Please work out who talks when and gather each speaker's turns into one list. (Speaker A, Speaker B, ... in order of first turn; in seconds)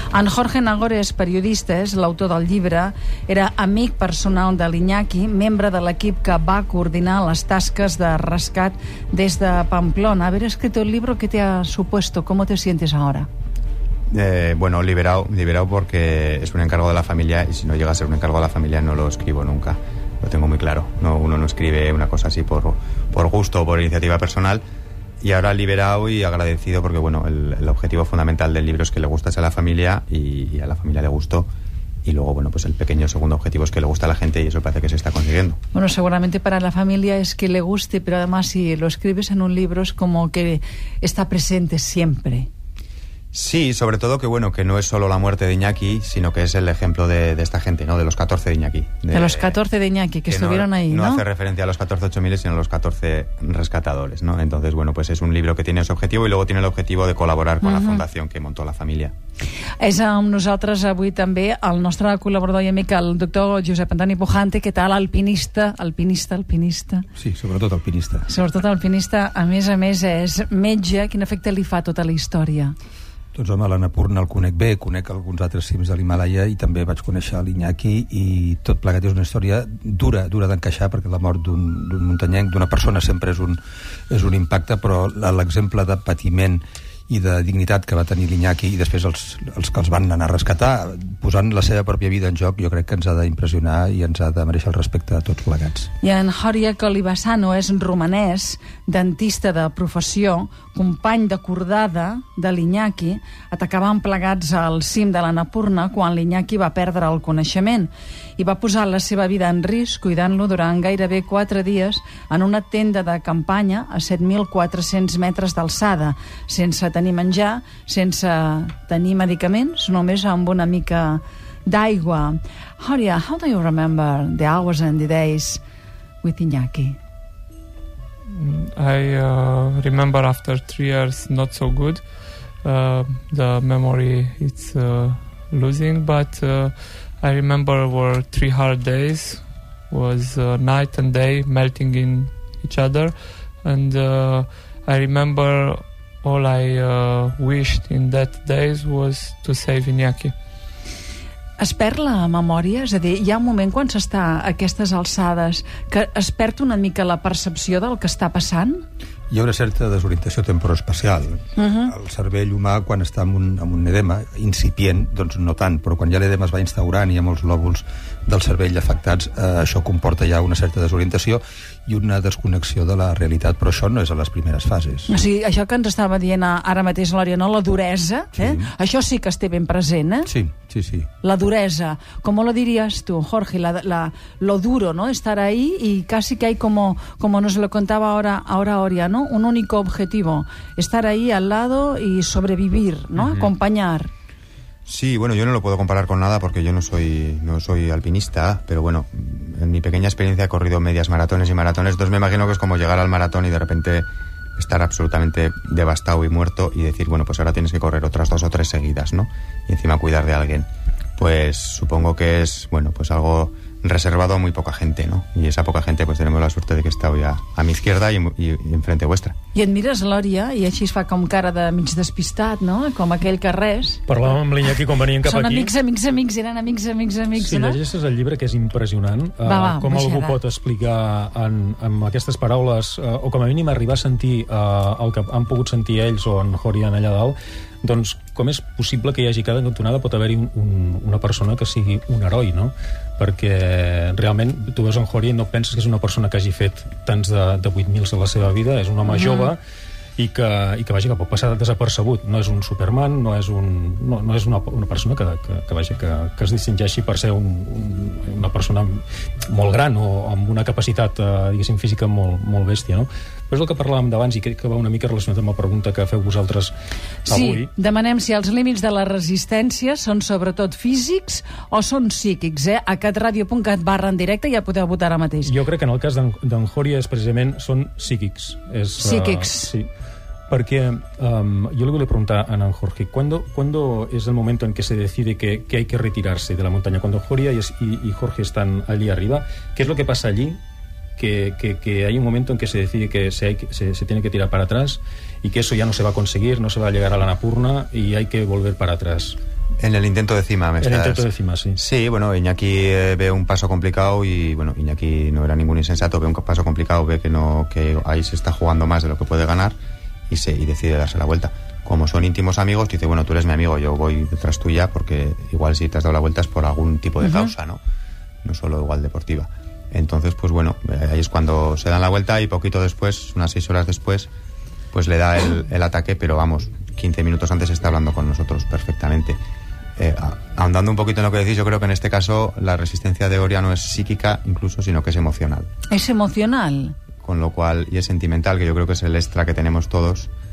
Speaker A: 0.1-13.3, 35.7-42.5, 49.1-51.2, 57.6-58.0, 59.8-67.0, 68.3-72.7, 96.0-125.6, 126.2-127.0, 151.6-158.8, 161.6-161.9, 175.1-180.3, 181.2-194.1, 219.5-224.1, 225.2-227.8, 229.4-230.4, 249.0-249.5, 267.2-275.5, 279.0-279.7, 317.2-317.5, 335.9-336.9
Speaker B: 14.1-24.6, 25.2-31.5, 32.0-35.6, 43.3-49.6, 50.3-59.1, 193.2-193.5, 194.8-219.3, 299.8-309.8, 310.3-317.8, 318.4-324.3, 324.9-329.4, 330.0-335.7, 337.2-340.3
Speaker C: 67.2-68.3, 73.3-83.6, 84.1-95.9, 159.3-175.1, 178.3-178.7, 180.2-181.1
Speaker D: 128.3-150.3
Speaker E: 224.1-225.7, 227.4-249.6, 250.2-266.7, 267.3-267.7, 275.4-279.9, 280.5-290.6, 291.2-299.4, 300.8-301.8